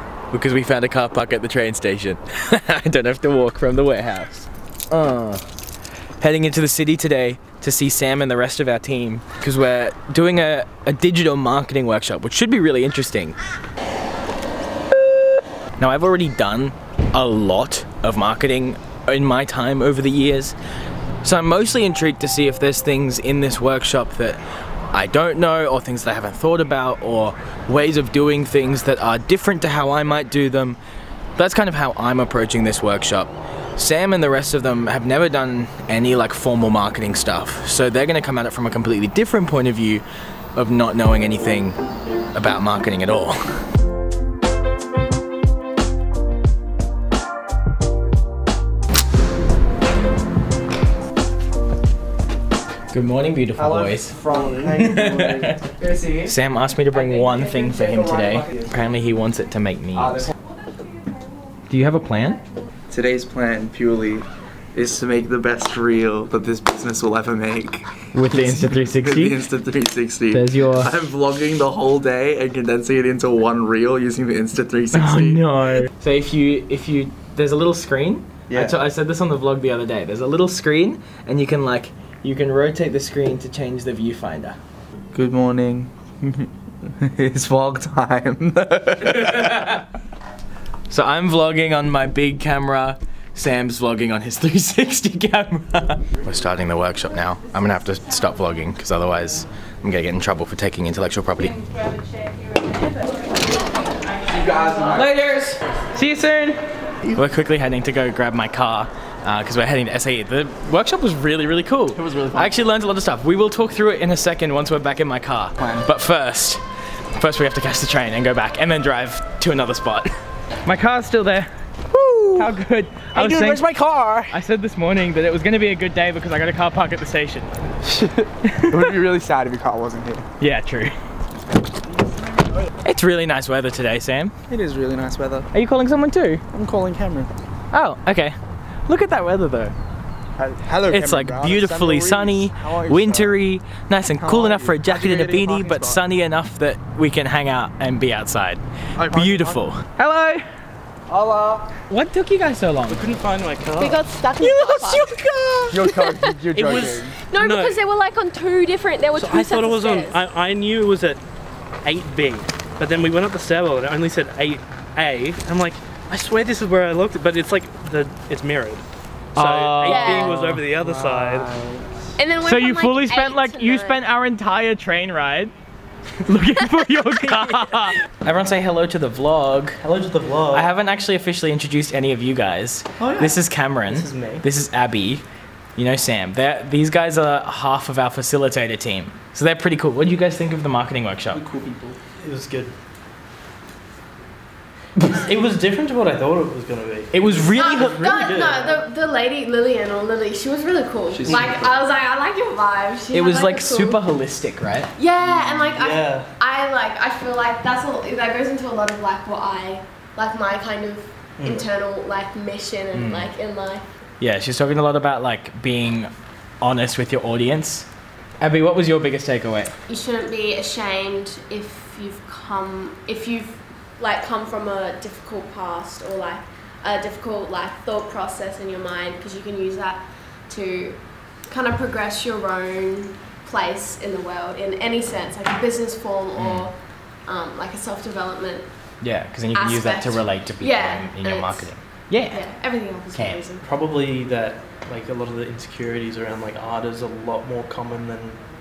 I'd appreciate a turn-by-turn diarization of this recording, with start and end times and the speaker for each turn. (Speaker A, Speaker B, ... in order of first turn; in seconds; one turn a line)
Speaker A: 0.3-5.4
Speaker A: 6.2-13.4
Speaker A: 15.8-20.6
Speaker A: 21.2-24.4
Speaker A: 24.9-30.8
Speaker A: 31.4-40.0
Speaker A: 40.5-41.8
Speaker A: 42.3-43.5
Speaker A: 52.9-55.6
Speaker B: 53.6-56.3
Speaker A: 56.2-60.3
Speaker B: 56.9-58.7
Speaker B: 59.9-60.3
Speaker A: 61.7-62.4
Speaker B: 62.9-75.4
Speaker A: 68.1-69.4
Speaker A: 70.3-70.9
Speaker A: 74.9-84.6
Speaker B: 78.5-78.8
Speaker B: 85.1-89.7
Speaker A: 89.1-89.8
Speaker A: 90.9-101.6
Speaker C: 101.6-103.7
Speaker B: 104.2-105.1
Speaker A: 104.9-116.6
Speaker B: 111.9-112.5
Speaker B: 115.6-115.9
Speaker A: 117.2-120.1
Speaker A: 120.6-121.5
Speaker B: 121.9-122.5
Speaker A: 122.3-123.6
Speaker B: 123.1-124.3
Speaker A: 124.3-127.7
Speaker B: 127.8-130.2
Speaker A: 128.4-128.8
Speaker A: 130.4-130.9
Speaker B: 131.7-132.7
Speaker A: 132.8-134.3
Speaker B: 134.5-135.5
Speaker A: 135.5-136.4
Speaker B: 136.5-137.3
Speaker A: 137.7-138.3
Speaker A: 138.9-139.7
Speaker B: 140.4-143.4
Speaker A: 140.9-150.4
Speaker B: 144.2-146.0
Speaker B: 148.9-149.6
Speaker B: 151.1-151.7
Speaker A: 151.9-153.1
Speaker D: 152.9-154.0
Speaker C: 153.8-155.2
Speaker A: 154.4-155.7
Speaker B: 155.7-157.2
Speaker C: 155.7-160.2
Speaker D: 156.6-157.8
Speaker D: 159.1-161.2
Speaker D: 161.8-171.5
Speaker A: 169.3-170.6
Speaker C: 169.8-170.3
Speaker B: 170.8-172.0
Speaker C: 172.2-174.0
Speaker A: 172.4-175.5
Speaker A: 176.2-179.8
Speaker D: 179.8-180.7
Speaker A: 180.5-185.2
Speaker B: 183.0-183.4
Speaker D: 183.8-184.4
Speaker A: 185.8-191.4
Speaker B: 191.3-192.0
Speaker D: 192.2-192.7
Speaker D: 195.1-198.8
Speaker A: 197.1-198.1
Speaker C: 197.5-204.0
Speaker B: 201.1-201.7
Speaker A: 203.1-204.9
Speaker C: 204.9-213.8
Speaker D: 205.2-206.3
Speaker D: 211.4-211.7
Speaker A: 212.9-213.3
Speaker A: 214.2-217.9
Speaker A: 218.4-219.7
Speaker C: 219.9-243.6
Speaker A: 236.3-236.7
Speaker A: 239.0-242.5
Speaker A: 243.1-243.4
Speaker D: 243.6-248.4